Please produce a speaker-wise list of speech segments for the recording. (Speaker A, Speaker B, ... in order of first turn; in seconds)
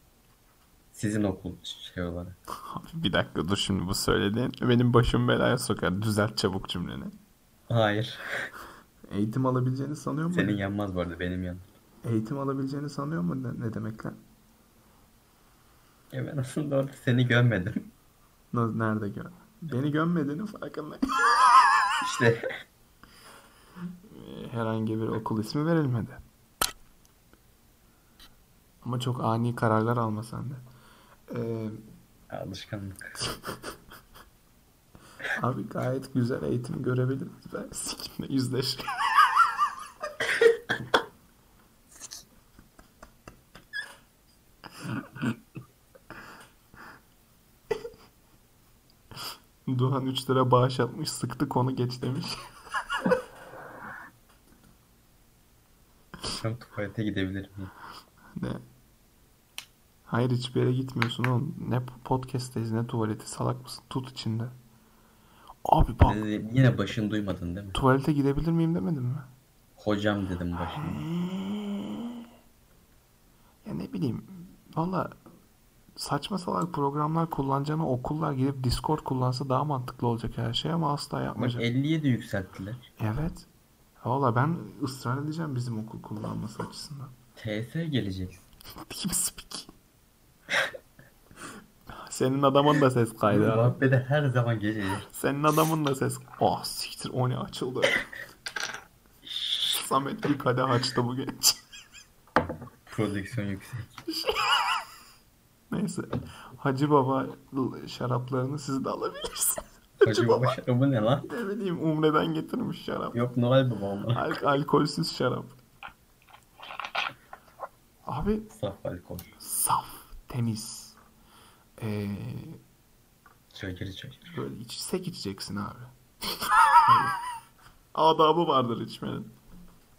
Speaker A: 0.9-2.4, 7.7-8.5, 10.3-11.7, 16.1-17.9, 22.0-22.5, 32.3-33.2, 56.3-57.7, 66.0-67.8, 69.8-71.1, 81.4-82.9, 87.4-88.4, 93.3-95.1, 99.2-99.8, 102.9-104.0, 110.0-111.3, 113.1-114.3, 118.5-119.3, 123.5-124.3
Speaker B: 2.6-7.1, 9.1-10.6, 12.0-14.2, 18.5-21.7, 24.1-26.2, 28.8-30.6, 31.3-31.8, 35.4-39.5, 49.7-52.4, 60.1-64.5, 65.6-66.2, 67.7-69.2, 70.6-72.2, 73.6-75.1, 76.0-81.6, 83.0-83.5, 84.0-87.1, 88.8-89.7, 92.0-93.8, 95.1-98.1, 99.7-101.6, 104.1-104.8, 105.7-110.5, 111.2-113.2, 114.1-115.6, 118.1-118.5, 119.4-121.0, 121.8-122.6, 124.3-127.1, 127.9-129.3